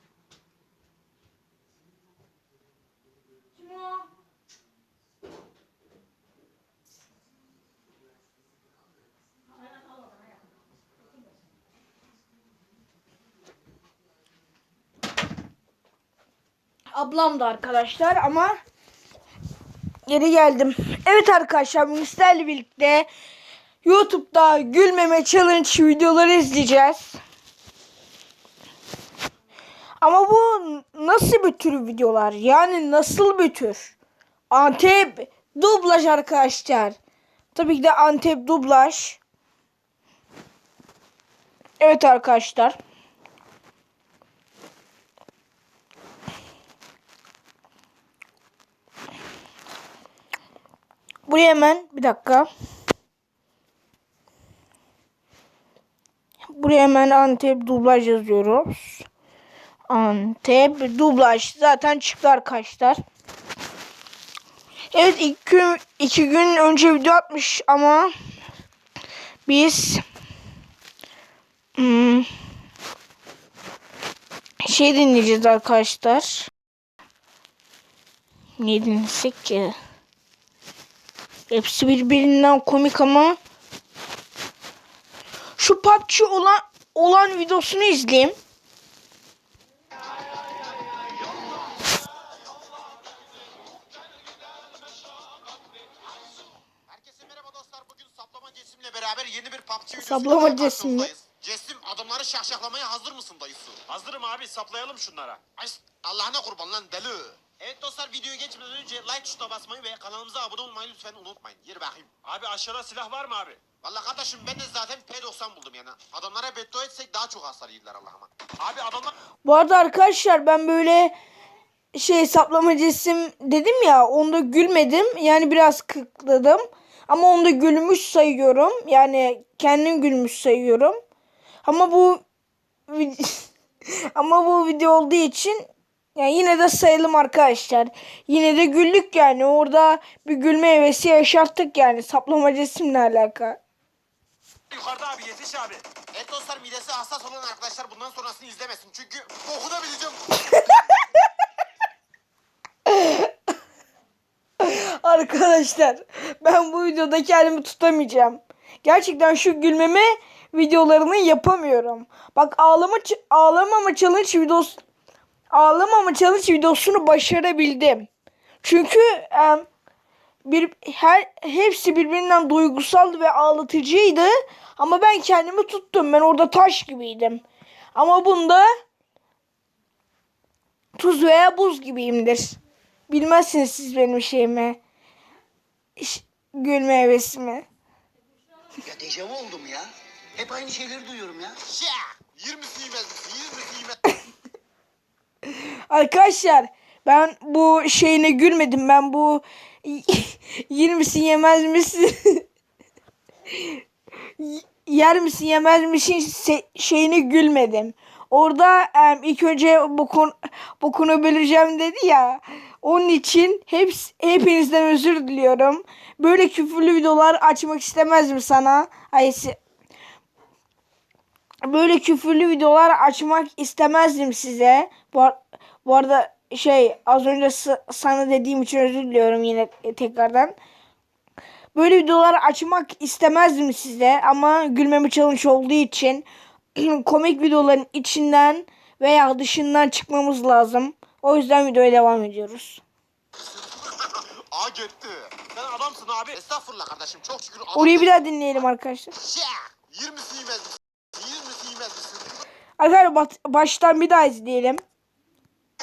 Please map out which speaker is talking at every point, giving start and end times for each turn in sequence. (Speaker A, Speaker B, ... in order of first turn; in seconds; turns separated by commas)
Speaker A: 3.6-4.0, Speaker A: 16.9-18.6, Speaker A: 20.1-23.1, Speaker A: 23.8-27.2, Speaker A: 30.0-33.9, Speaker A: 34.5-37.0, Speaker A: 37.5-39.2, Speaker A: 41.8-42.8, Speaker A: 51.3-52.5, Speaker A: 56.5-59.0, Speaker A: 59.9-63.0, Speaker A: 64.9-68.1, Speaker A: 69.5-70.0, Speaker A: 71.8-72.3, Speaker A: 74.7-76.5, Speaker A: 78.6-79.8, Speaker A: 81.5-83.4, Speaker A: 85.6-88.3, Speaker B: 96.9-103.8, Speaker A: 100.0-101.1, Speaker C: 103.9-105.4, Speaker B: 105.6-112.1, Speaker C: 112.2-113.6, Speaker B: 113.8-118.3, Speaker C: 118.6-119.1, Speaker A: 119.4-121.1, Speaker A: 121.9-131.0, Speaker A: 131.6-132.2, Speaker A: 132.9-143.6, Speaker C: 144.7-145.8, Speaker B: 146.1-150.6, Speaker A: 152.9-153.3, Speaker A: 154.6-164.8, Speaker A: 165.5-168.1, Speaker A: 168.6-169.7, Speaker A: 170.4-177.4, Speaker A: 177.9-178.7, Speaker A: 181.0-184.8, Speaker A: 186.0-187.6, Speaker D: 188.8-191.6, Speaker B: 191.7-194.0, Speaker A: 195.5-202.4, Speaker A: 203.5-203.8, Speaker A: 204.4-219.6, Speaker A: 221.6-230.6, Speaker A: 231.8-242.8, Speaker B: 243.4-245.4, Speaker C: 245.5-246.4, Speaker B: 246.3-248.6, Speaker A: 247.7-249.1, Speaker B: 249.2-252.4, Speaker A: 252.8-254.8